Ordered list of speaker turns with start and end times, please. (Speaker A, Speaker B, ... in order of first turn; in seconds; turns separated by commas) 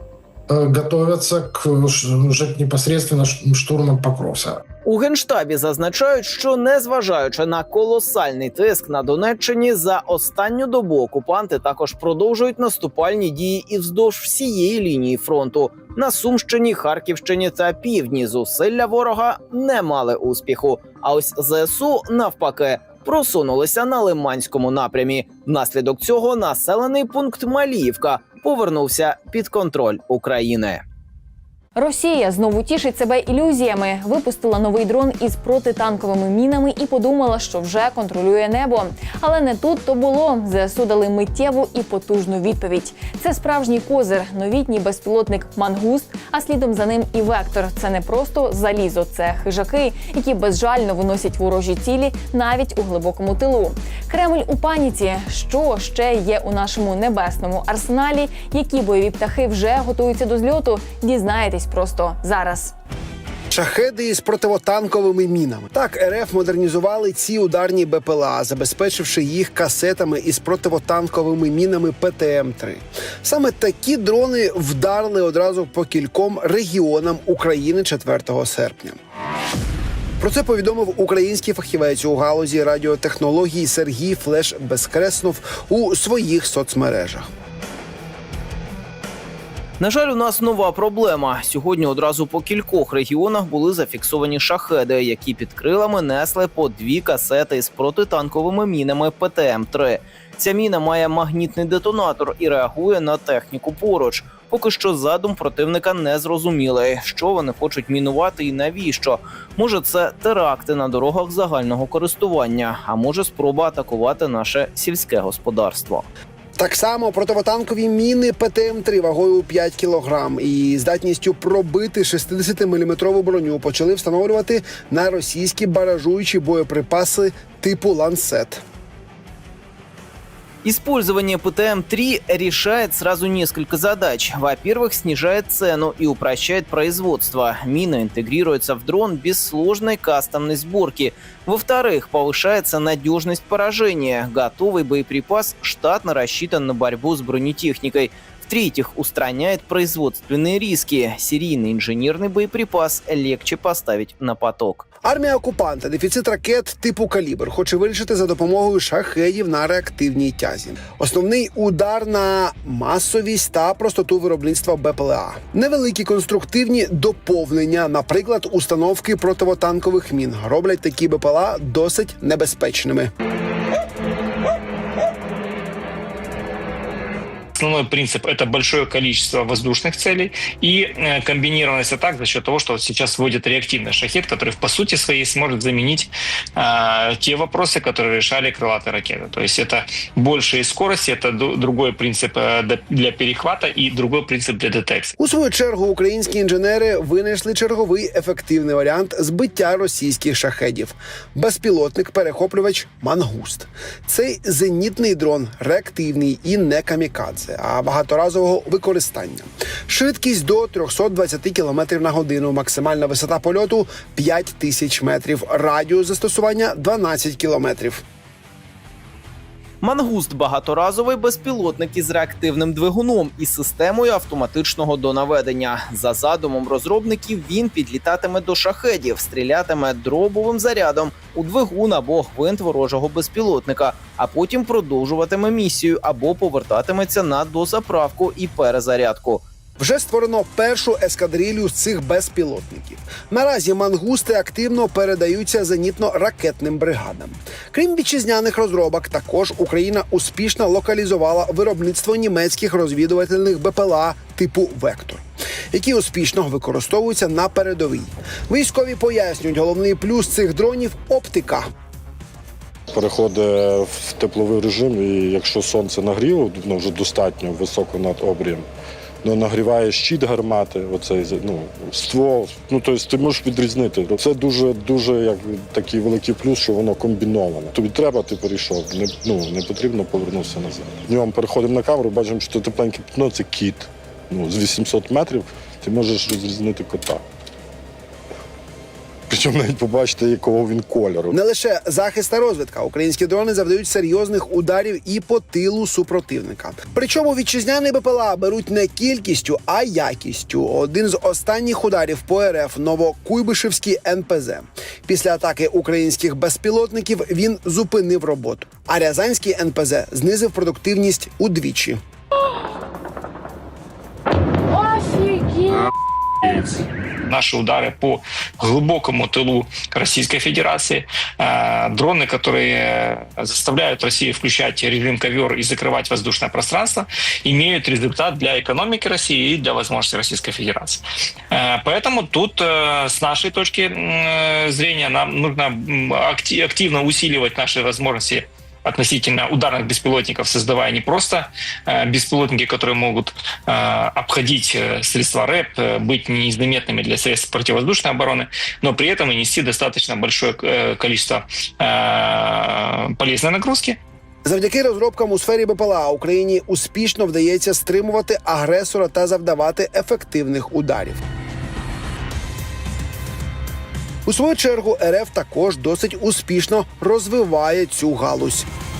Speaker A: 0.5-4.6, Speaker B: 4.8-30.8, Speaker C: 31.8-62.7, Speaker D: 63.5-79.0, Speaker D: 80.2-87.3, Speaker B: 89.8-116.1, Speaker D: 116.6-128.6, Speaker B: 130.6-154.8, Speaker D: 155.0-173.1, Speaker E: 177.6-195.2, Speaker D: 195.2-218.0, Speaker B: 219.8-239.4, Speaker D: 239.8-261.7, Speaker F: 262.9-268.7, Speaker F: 269.2-287.2, Speaker F: 289.3-291.4, Speaker D: 291.3-312.0, Speaker E: 317.3-354.0, Speaker D: 354.4-361.2, Speaker D: 364.3-368.7